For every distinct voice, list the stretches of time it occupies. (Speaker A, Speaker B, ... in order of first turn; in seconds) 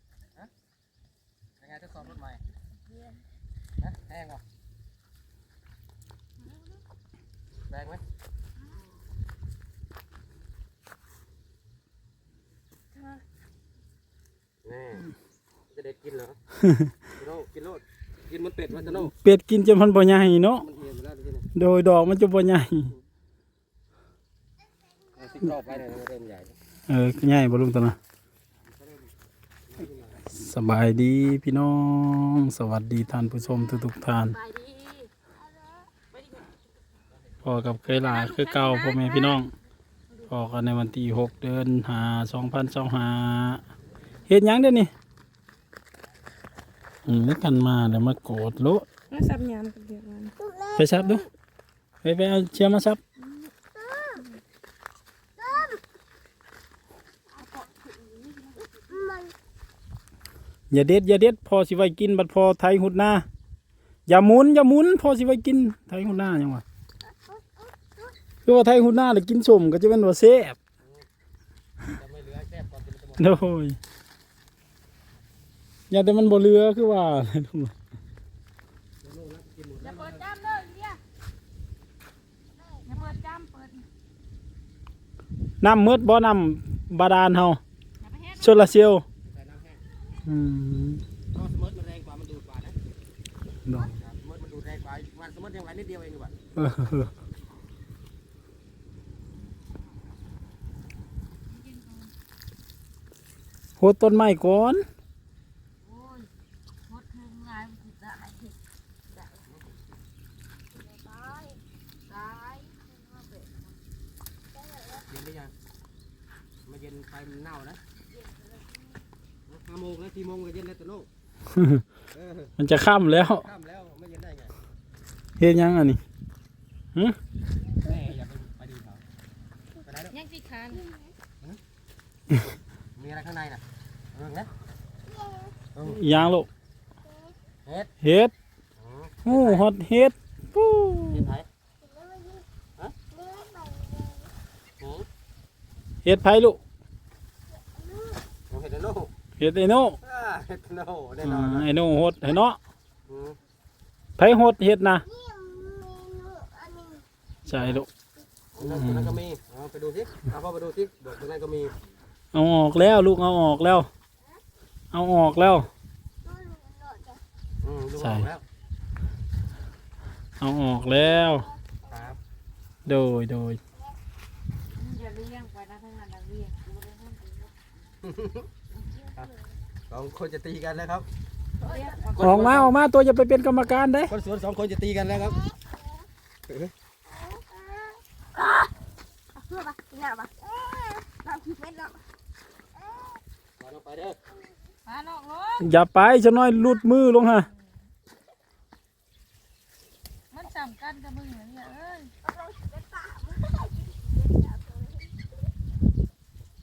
Speaker A: 1.6-2.4, 3.8-4.4, 7.7-8.0, 14.6-15.1, 15.7-16.4, 17.1-19.1, 20.6-21.5, 25.2-26.6, 28.6-29.1, 29.7-30.2, 71.9-73.4, 79.0-80.2, 89.2-89.8, 91.3-92.8, 93.8-96.3, 115.1-115.5, 116.7-117.8, 119.5-121.1, 122.1-122.5, 123.2-124.5, 127.8-129.0, 129.8-130.2, 133.0-133.6, 134.1-134.5, 135.7-136.4, 137.7-137.9, 138.8-139.7, 141.1-141.5, 144.8-145.1, 148.5-149.1, 150.0-151.7, 153.1-153.4, 157.5-157.8, 158.6-161.7, 167.6-168.4, 171.9-172.2, 178.0-178.5, 179.9-181.1, 182.1-182.7, 184.1-185.4, 193.6-194.2
Speaker B: 19.1-20.7, 21.6-22.9, 26.9-28.0, 30.3-34.4, 37.4-39.5, 40.3-43.6, 44.3-44.9, 47.1-48.9, 50.8-51.2, 52.0-53.0, 60.7-63.2, 64.1-66.6, 68.5-70.6, 73.2-73.8, 75.9-77.7, 85.6-87.6, 88.4-89.0, 90.3-91.0, 96.6-97.1, 103.8-104.8, 121.5-121.8, 122.6-123.5, 125.4-126.0, 135.8-136.5, 138.0-138.3, 139.3-141.3, 146.1-146.6, 149.4-150.0, 151.2-152.6, 154.2-155.1, 157.5-157.9, 158.6-159.2, 162.3-163.9, 164.9-165.7, 168.0-168.3, 170.4-171.5, 172.9-173.6, 182.2-184.1, 195.6-197.5
Speaker C: 34.3-35.1, 36.1-36.5, 38.1-39.4, 49.1-50.3, 57.3-59.0, 79.8-81.0, 82.8-83.9, 88.0-88.6, 101.5-102.1, 105.8-106.3, 106.9-108.5, 112.1-113.7, 130.1-130.8, 174.8-177.5, 181.6-182.4, 194.9-195.7, 200.3-202.1
Speaker D: 35.4-35.9, 50.4-51.3, 53.6-54.2, 55.4-55.8, 58.9-59.3, 67.0-68.2, 82.6-82.9, 110.8-111.6, 114.6-115.0, 130.7-131.1, 135.1-135.6, 137.1-137.3, 141.8-142.4, 143.1-144.3, 147.5-148.2, 155.1-157.0, 166.2-167.2, 171.1-172.1, 185.2-185.8, 187.1-188.0, 189.4-192.0, 192.8-193.2, 202.2-205.1